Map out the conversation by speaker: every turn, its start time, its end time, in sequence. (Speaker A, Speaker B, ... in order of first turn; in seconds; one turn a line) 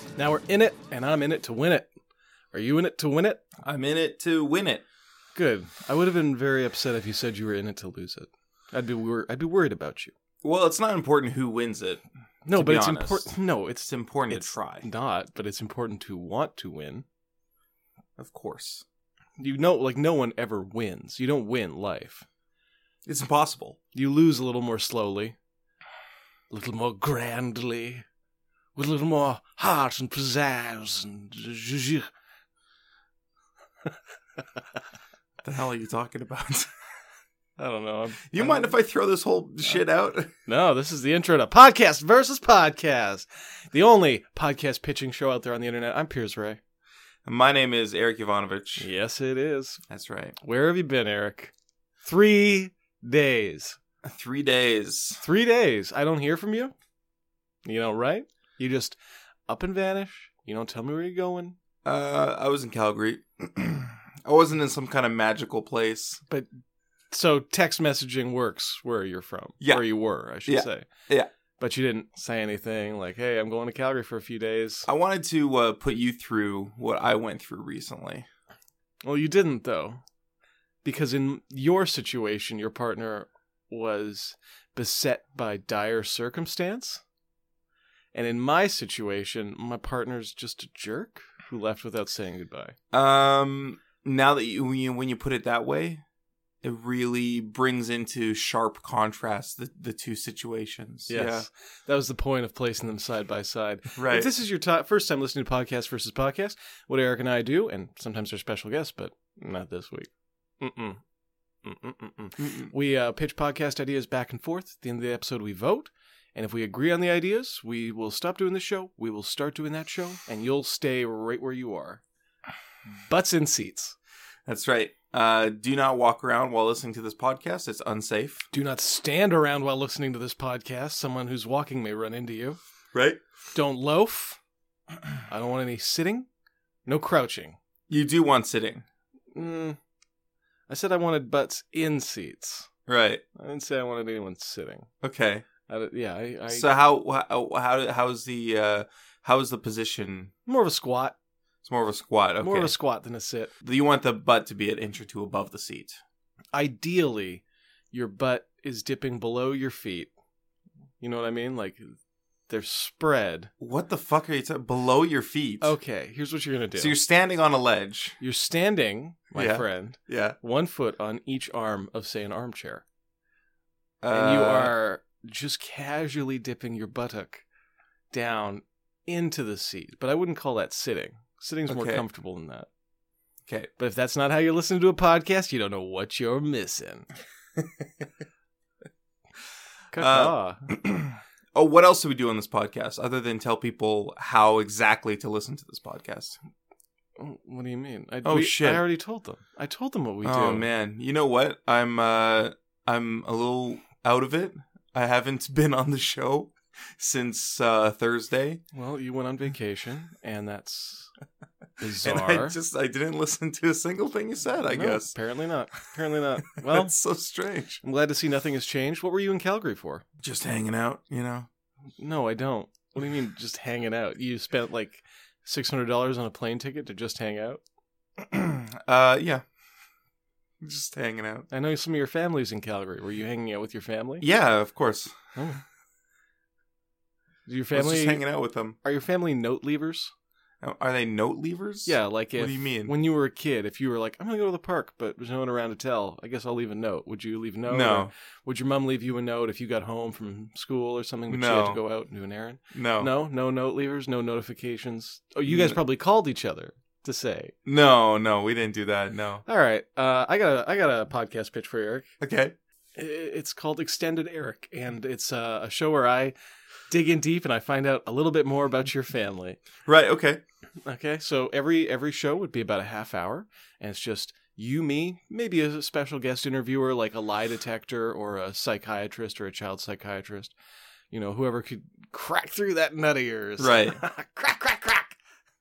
Speaker A: 0.2-1.9
Speaker A: 2.5-3.4
Speaker B: 3.6-4.8
Speaker A: 5.3-10.1
Speaker B: 10.4-13.3
Speaker A: 12.4-17.0
Speaker B: 13.8-14.9
Speaker B: 18.2-18.8
Speaker A: 19.4-22.2
Speaker B: 23.1-23.8
Speaker A: 23.9-25.3
Speaker A: 26.5-28.0
Speaker A: 28.8-32.1
Speaker B: 35.4-36.7
Speaker A: 37.6-38.8
Speaker B: 38.3-40.3
Speaker A: 40.5-46.6
Speaker B: 47.2-48.9
Speaker A: 48.8-49.8
Speaker B: 49.9-50.4
Speaker A: 50.4-51.5
Speaker A: 52.0-53.8
Speaker B: 54.0-55.2
Speaker A: 55.2-56.7
Speaker A: 57.6-59.0
Speaker A: 59.5-61.5
Speaker B: 61.8-66.2
Speaker A: 67.1-70.9
Speaker B: 69.6-69.8
Speaker B: 70.4-71.3
Speaker A: 71.6-74.9
Speaker B: 74.8-78.3
Speaker A: 79.0-80.0
Speaker A: 80.8-87.0
Speaker A: 88.1-92.7
Speaker B: 92.9-96.0
Speaker B: 96.6-101.5
Speaker A: 101.1-110.1
Speaker B: 104.0-104.3
Speaker A: 110.6-111.0
Speaker A: 111.6-122.0
Speaker B: 112.4-112.7
Speaker A: 123.1-124.0
Speaker B: 124.5-128.5
Speaker A: 128.5-132.6
Speaker B: 132.9-133.2
Speaker A: 133.5-134.4
Speaker A: 135.3-136.3
Speaker A: 136.8-137.6
Speaker B: 137.9-138.8
Speaker A: 139.3-139.8
Speaker A: 140.7-142.7
Speaker B: 142.9-143.2
Speaker A: 143.3-144.9
Speaker B: 145.0-145.5
Speaker A: 145.7-146.7
Speaker B: 146.5-150.3
Speaker A: 150.4-151.1
Speaker B: 151.6-152.7
Speaker A: 152.4-153.5
Speaker B: 153.6-156.0
Speaker A: 156.5-160.1
Speaker A: 161.0-161.9
Speaker A: 162.5-163.5
Speaker B: 163.6-165.8
Speaker A: 165.6-167.0
Speaker B: 166.8-168.2
Speaker A: 168.2-172.8
Speaker B: 169.3-170.4
Speaker B: 174.0-174.7
Speaker A: 174.1-177.4
Speaker A: 178.1-182.7
Speaker B: 181.7-182.0
Speaker A: 183.8-187.1
Speaker A: 189.9-190.7
Speaker B: 190.0-196.4
Speaker A: 197.2-200.7
Speaker B: 198.2-198.8
Speaker B: 200.2-208.6
Speaker A: 208.7-211.1
Speaker A: 211.8-212.6
Speaker B: 212.0-215.1
Speaker A: 214.6-216.9
Speaker B: 216.6-217.8
Speaker A: 217.8-220.0
Speaker B: 220.2-221.5
Speaker A: 222.0-227.6
Speaker B: 228.2-229.4
Speaker B: 230.6-231.5
Speaker A: 231.5-234.2
Speaker B: 234.2-235.2
Speaker A: 235.3-235.6
Speaker A: 237.4-238.2
Speaker B: 237.7-238.8
Speaker A: 238.8-240.1
Speaker B: 240.6-242.9
Speaker A: 241.8-257.5
Speaker B: 247.7-248.1
Speaker B: 251.3-251.8
Speaker B: 252.7-253.1
Speaker B: 255.5-255.7
Speaker B: 257.6-259.4
Speaker A: 259.4-262.1
Speaker B: 262.2-262.5
Speaker A: 262.9-266.3
Speaker A: 266.9-269.6
Speaker B: 269.9-270.4
Speaker A: 270.8-280.5
Speaker A: 281.1-285.2
Speaker B: 283.6-284.0